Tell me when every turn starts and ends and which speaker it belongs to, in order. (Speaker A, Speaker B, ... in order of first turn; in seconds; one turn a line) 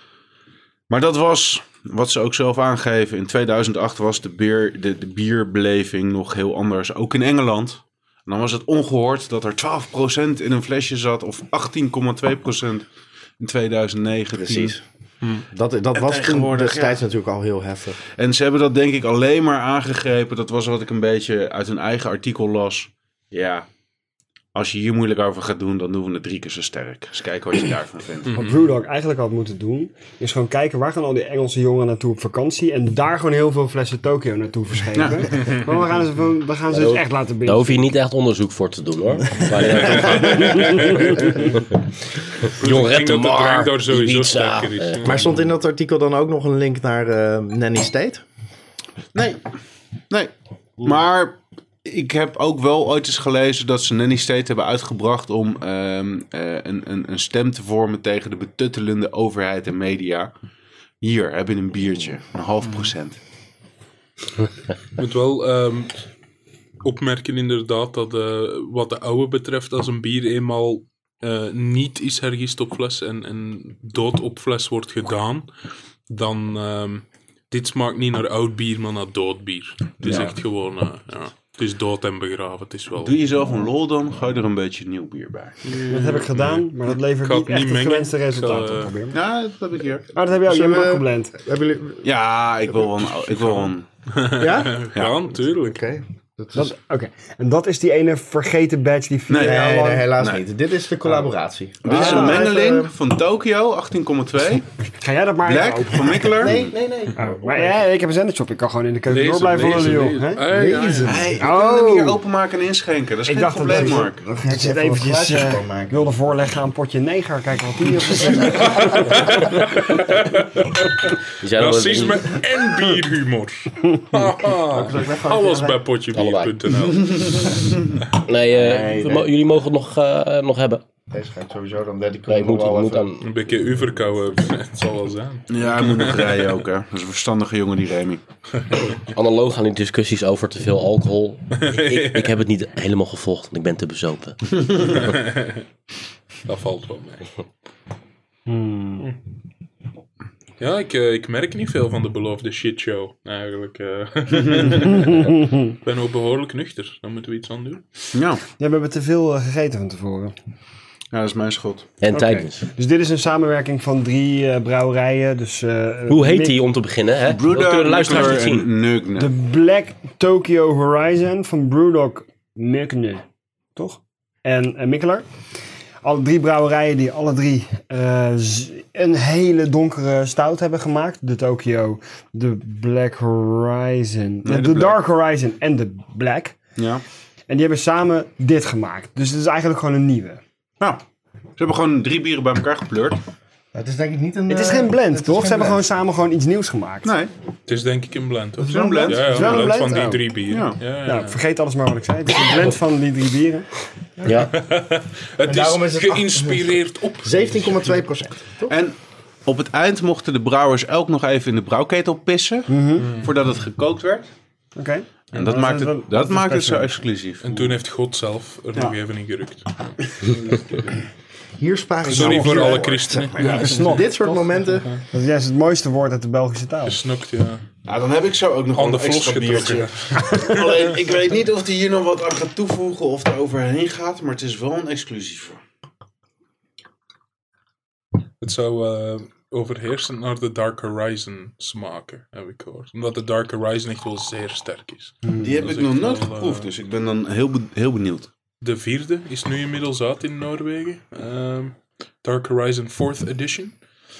Speaker A: 0.9-12.8
Speaker A: 13.4-14.8
Speaker B: 14.4-14.8
Speaker B: 15.5-18.0
Speaker A: 15.9-17.0
Speaker A: 18.1-23.7
Speaker A: 24.5-28.3
Speaker C: 28.3-37.9
Speaker A: 34.9-35.5
Speaker D: 36.7-41.4
Speaker E: 39.7-41.3
Speaker D: 42.4-45.2
Speaker E: 42.5-45.2
Speaker B: 45.0-48.2
Speaker A: 49.1-49.5
Speaker A: 50.1-60.3
Speaker A: 61.0-63.2
Speaker E: 65.0-66.0
Speaker E: 66.8-75.5
Speaker E: 76.1-83.1
Speaker A: 80.0-80.3
Speaker A: 83.0-85.6
Speaker E: 85.6-88.9
Speaker C: 85.9-89.2
Speaker A: 89.1-90.1
Speaker C: 90.1-91.3
Speaker B: 90.4-92.1
Speaker A: 92.0-93.8
Speaker E: 94.1-95.8
Speaker B: 94.4-94.9
Speaker B: 95.6-96.7
Speaker C: 96.5-100.1
Speaker A: 99.3-99.6
Speaker B: 99.4-102.9
Speaker A: 100.2-100.4
Speaker A: 101.8-104.7
Speaker C: 101.8-102.5
Speaker C: 104.9-106.6
Speaker A: 105.4-106.7
Speaker B: 106.3-107.8
Speaker C: 107.2-110.7
Speaker E: 109.1-111.2
Speaker B: 110.5-111.4
Speaker A: 111.0-114.2
Speaker C: 111.3-112.2
Speaker C: 113.2-119.2
Speaker B: 113.8-116.1
Speaker E: 118.4-127.6
Speaker D: 121.4-122.3
Speaker B: 124.7-125.8
Speaker D: 126.1-126.6
Speaker A: 127.1-128.0
Speaker D: 128.2-130.8
Speaker B: 128.5-129.3
Speaker B: 131.1-133.1
Speaker D: 132.3-133.2
Speaker E: 133.2-136.6
Speaker A: 135.5-138.2
Speaker D: 139.0-144.6
Speaker E: 141.5-142.3
Speaker E: 144.8-145.6
Speaker E: 146.4-147.3
Speaker C: 148.5-149.1
Speaker E: 150.6-157.8
Speaker A: 154.3-154.7
Speaker C: 154.9-155.6
Speaker A: 158.1-158.4
Speaker C: 158.6-160.3
Speaker A: 161.1-161.9
Speaker D: 162.0-162.6
Speaker C: 162.1-166.6
Speaker D: 166.1-168.7
Speaker A: 167.3-169.3
Speaker C: 169.2-173.2
Speaker C: 173.8-175.2
Speaker C: 176.0-186.6
Speaker A: 184.4-185.0
Speaker A: 186.8-187.0
Speaker C: 187.5-190.4
Speaker A: 191.6-193.2
Speaker B: 193.7-195.8
Speaker C: 194.5-197.1
Speaker A: 197.0-197.3
Speaker E: 197.7-201.4
Speaker A: 198.6-199.7
Speaker C: 198.7-200.3
Speaker A: 200.5-200.8
Speaker C: 201.0-203.7
Speaker D: 204.2-204.5
Speaker E: 204.5-208.0
Speaker B: 205.4-208.7
Speaker A: 208.7-214.3
Speaker C: 212.7-213.2
Speaker C: 214.8-216.9
Speaker A: 215.3-217.7
Speaker E: 217.4-220.9
Speaker B: 221.6-224.9
Speaker E: 222.1-224.0
Speaker C: 222.2-222.8
Speaker C: 223.4-224.6
Speaker C: 225.1-227.0
Speaker E: 226.8-227.6
Speaker A: 227.8-235.6
Speaker E: 228.7-230.9
Speaker E: 238.4-246.7
Speaker A: 245.4-248.3
Speaker E: 248.6-253.8